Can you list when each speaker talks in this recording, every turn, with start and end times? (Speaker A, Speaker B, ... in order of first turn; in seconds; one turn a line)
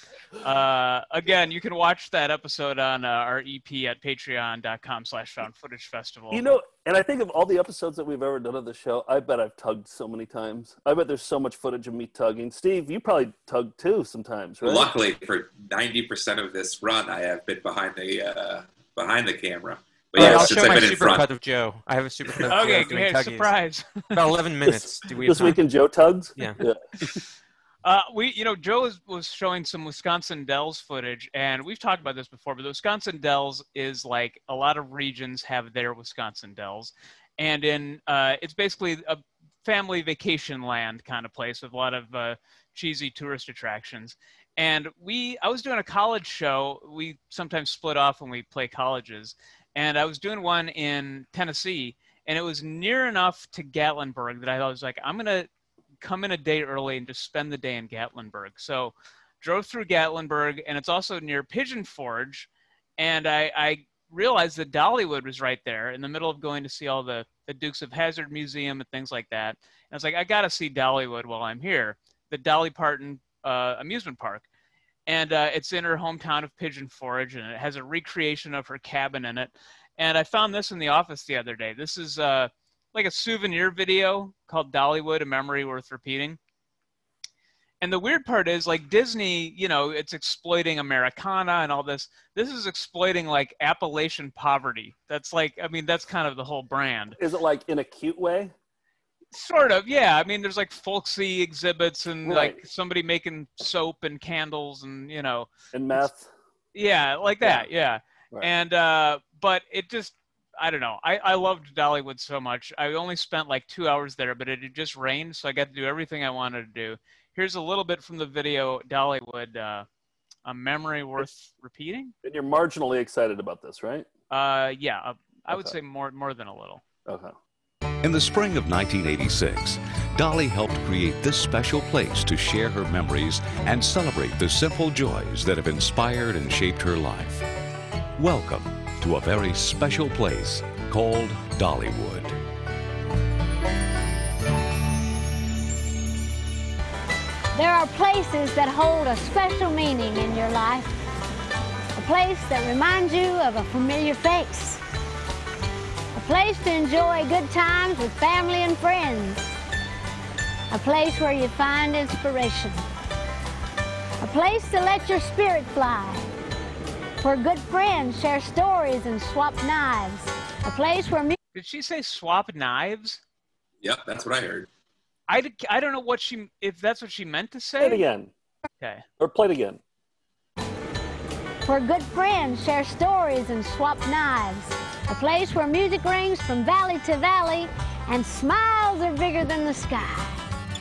Speaker A: 0.4-6.4
Speaker B: 6.3-14.9
Speaker C: 14.6-21.3
Speaker D: 20.1-23.5
Speaker B: 20.2-20.6
Speaker A: 22.5-24.1
Speaker D: 24.1-25.6
Speaker B: 24.6-26.8
Speaker A: 27.8-55.5
Speaker A: 56.0-74.4
Speaker A: 75.1-86.4
Speaker A: 87.8-97.2
Speaker B: 97.2-98.5
Speaker A: 99.3-106.1
Speaker B: 102.2-102.6
Speaker B: 105.7-106.3
Speaker A: 106.7-119.8
Speaker A: 120.5-122.1
Speaker B: 122.2-124.1
Speaker A: 124.3-126.8
Speaker B: 127.0-127.3
Speaker E: 128.0-137.4
Speaker E: 138.2-142.3
Speaker F: 147.5-150.9
Speaker F: 151.9-154.8
Speaker F: 156.1-159.5
Speaker F: 160.7-162.8
Speaker F: 164.2-166.3
Speaker F: 167.2-171.4
Speaker A: 171.5-173.2
Speaker C: 173.8-174.7
Speaker A: 175.3-178.0
Speaker B: 177.8-178.3
Speaker B: 179.2-179.8
Speaker F: 181.6-190.4